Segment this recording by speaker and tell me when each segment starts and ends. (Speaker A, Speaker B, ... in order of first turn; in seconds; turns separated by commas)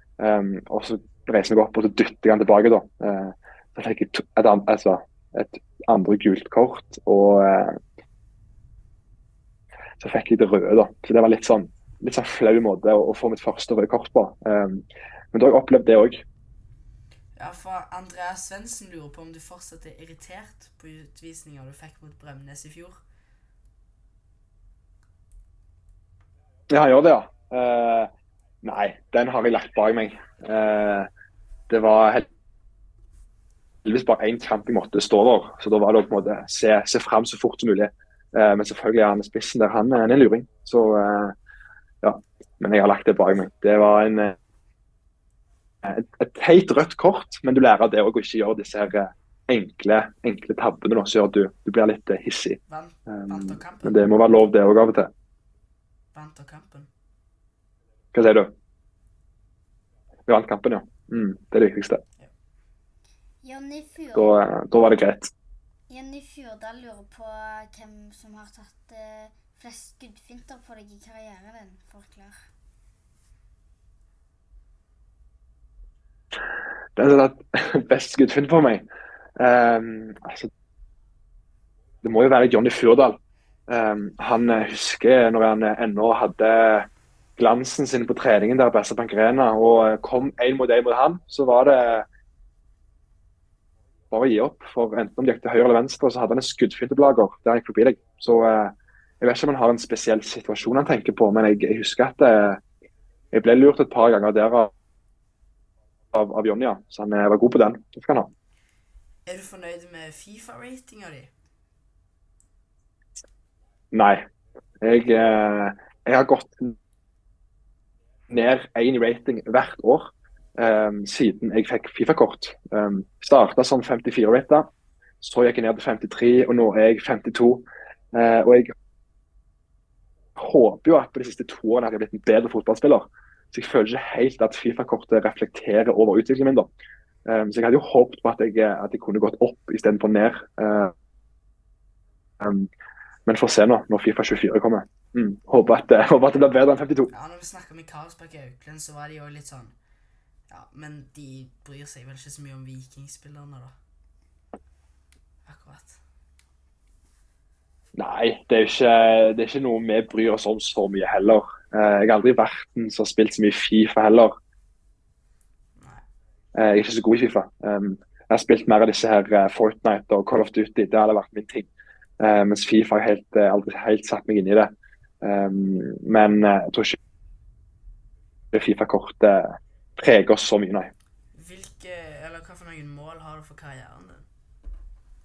Speaker A: 0.2-7.8, Speaker A: 10.0-16.2, Speaker B: 17.4-23.0, Speaker A: 26.7-28.1, Speaker A: 28.6-31.1, Speaker A: 31.7-32.3, Speaker A: 33.8-41.4, Speaker A: 42.0-44.4, Speaker A: 45.8-55.1, Speaker B: 52.7-54.0, Speaker B: 56.1-56.9, Speaker A: 58.1-58.5, Speaker A: 60.3-62.0, Speaker C: 63.4-64.4, Speaker A: 64.1-65.3, Speaker C: 65.9-72.4, Speaker A: 77.0-78.8, Speaker A: 79.4-80.5, Speaker A: 82.0-92.1, Speaker A: 94.1-102.6, Speaker A: 103.3-104.7, Speaker A: 106.1-108.3, Speaker B: 109.2-111.3, Speaker A: 113.9-114.3, Speaker A: 114.8-116.8, Speaker A: 118.3-124.7, Speaker A: 125.2-128.7, Speaker A: 130.4-136.7, Speaker A: 137.3-140.9, Speaker A: 142.4-142.7, Speaker A: 143.3-147.1, Speaker B: 147.1-149.8, Speaker B: 150.5-153.8, Speaker B: 155.4-156.0, Speaker A: 157.9-164.3, Speaker B: 165.8-166.0, Speaker A: 166.6-171.7, Speaker A: 172.2-177.0, Speaker A: 178.5-180.9, Speaker B: 181.3-184.3